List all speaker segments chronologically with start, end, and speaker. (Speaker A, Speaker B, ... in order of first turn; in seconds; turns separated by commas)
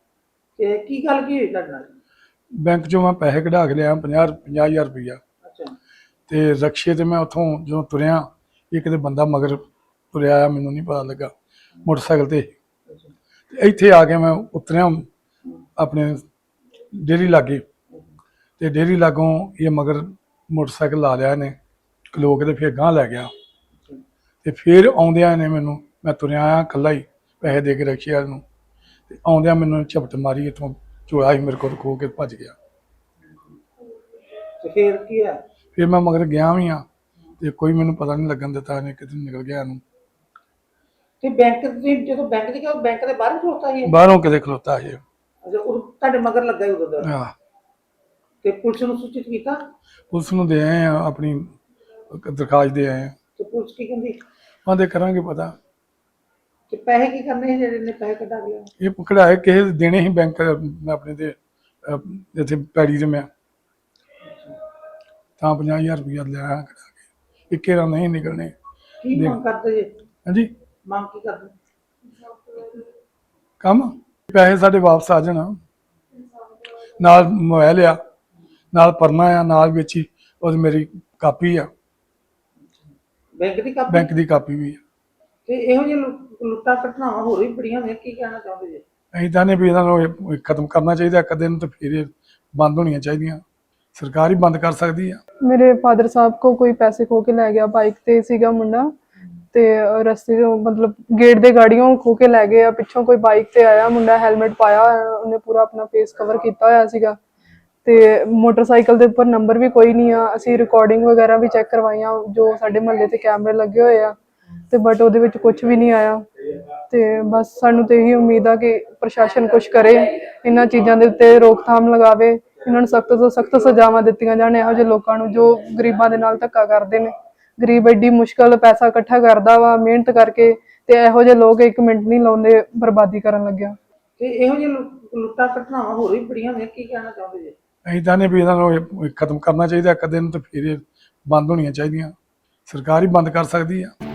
Speaker A: 0.6-1.9, Speaker B: 2.6-5.2, Speaker A: 5.4-5.7, Speaker B: 6.3-9.6, Speaker B: 10.1-12.5, Speaker B: 13.5-15.1, Speaker B: 15.8-16.2, Speaker B: 16.9-17.6, Speaker B: 18.6-21.5, Speaker B: 22.1-23.3, Speaker B: 24.4-28.4, Speaker B: 29.1-32.5, Speaker A: 33.3-33.5, Speaker A: 34.6-35.4, Speaker B: 35.7-36.8, Speaker B: 37.4-39.8, Speaker A: 41.2-43.9, Speaker B: 43.9-45.0, Speaker A: 45.4-47.1, Speaker B: 47.0-47.3, Speaker A: 48.4-49.6, Speaker B: 50.1-51.5, Speaker B: 52.1-53.1, Speaker A: 53.4-54.2, Speaker B: 54.6-55.5, Speaker A: 56.7-58.7, Speaker B: 58.8-63.3, Speaker A: 64.2-64.5, Speaker B: 65.4-68.5, Speaker A: 69.0-69.9, Speaker B: 69.1-69.4, Speaker A: 70.8-71.5, Speaker B: 73.6-75.6, Speaker B: 77.0-78.0, Speaker B: 78.7-81.7, Speaker A: 83.4-84.1, Speaker B: 83.9-84.8, Speaker A: 85.5-88.8, Speaker B: 89.1-93.4, Speaker B: 93.9-95.2, Speaker C: 95.4-98.9, Speaker C: 99.5-107.2, Speaker C: 107.8-114.1, Speaker C: 114.7-116.2, Speaker C: 116.9-133.7, Speaker A: 134.2-137.5, Speaker B: 137.8-142.1, Speaker B: 142.7-143.9